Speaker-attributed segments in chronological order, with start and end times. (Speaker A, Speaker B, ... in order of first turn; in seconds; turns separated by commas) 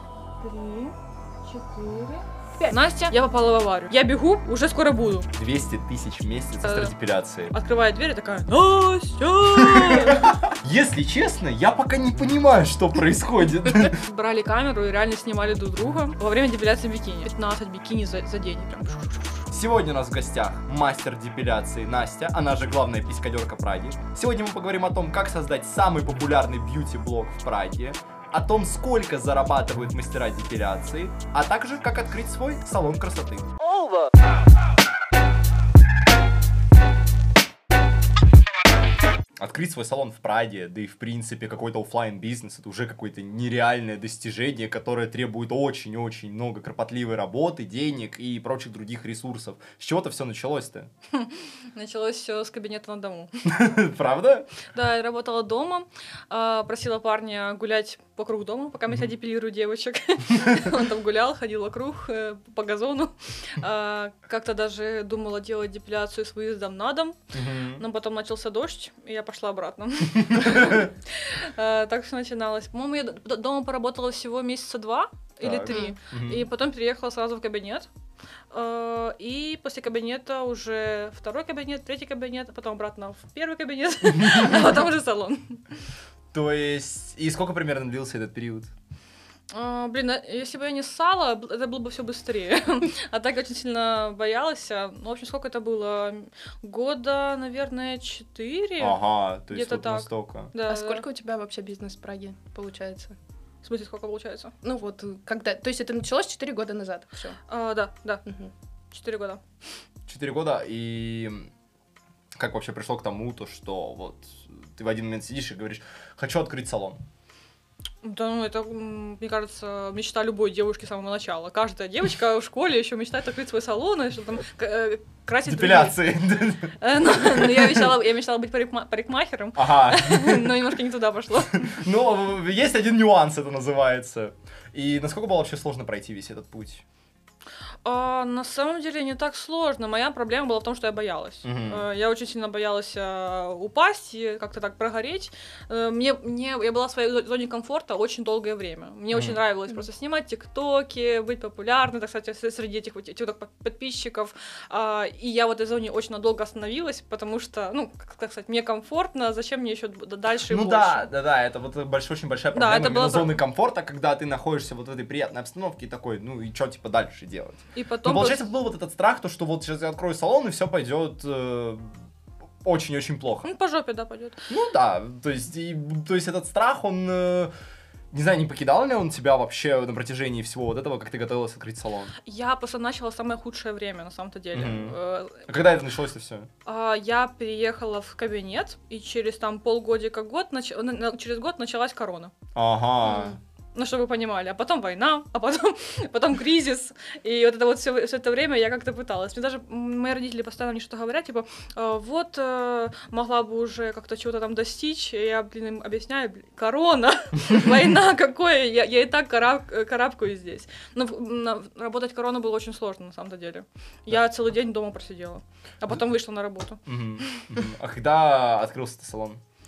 Speaker A: 0.4-5.3, Speaker B: 5.3-7.5, Speaker A: 6.6-6.9, Speaker A: 7.5-10.3, Speaker B: 9.5-14.0, Speaker A: 13.8-19.5, Speaker B: 19.5-34.0, Speaker B: 39.4-50.9, Speaker A: 51.1-53.3, Speaker B: 53.5-54.5, Speaker A: 54.7-67.2, Speaker B: 67.3-67.8, Speaker A: 67.8-77.9, Speaker B: 70.2-70.9, Speaker B: 75.4-76.5, Speaker C: 75.7-75.9, Speaker A: 78.5-85.6, Speaker B: 84.0-84.7, Speaker B: 86.3-88.7, Speaker A: 89.5-101.0, Speaker B: 98.8-100.5, Speaker C: 100.7-103.2, Speaker A: 103.6-104.5, Speaker C: 104.6-107.4, Speaker A: 107.5-108.2, Speaker C: 108.3-108.5, Speaker A: 108.9-109.4, Speaker B: 110.1-111.5, Speaker B: 112.3-117.0, Speaker A: 118.0-126.1, Speaker B: 125.5-127.9, Speaker A: 126.8-131.7, Speaker B: 129.6-130.6, Speaker B: 131.6-136.8, Speaker A: 137.8-161.1, Speaker B: 141.4-141.8, Speaker B: 149.1-149.4, Speaker B: 160.5-171.9, Speaker A: 162.5-163.4, Speaker A: 167.8-168.5, Speaker B: 172.6-173.5, Speaker A: 173.4-174.4, Speaker B: 174.5-177.5, Speaker B: 178.1-182.1, Speaker A: 182.2-185.5, Speaker B: 184.5-186.5, Speaker A: 186.7-192.3, Speaker B: 192.6-193.4, Speaker C: 193.1-193.4, Speaker A: 193.8-217.4, Speaker B: 216.9-219.4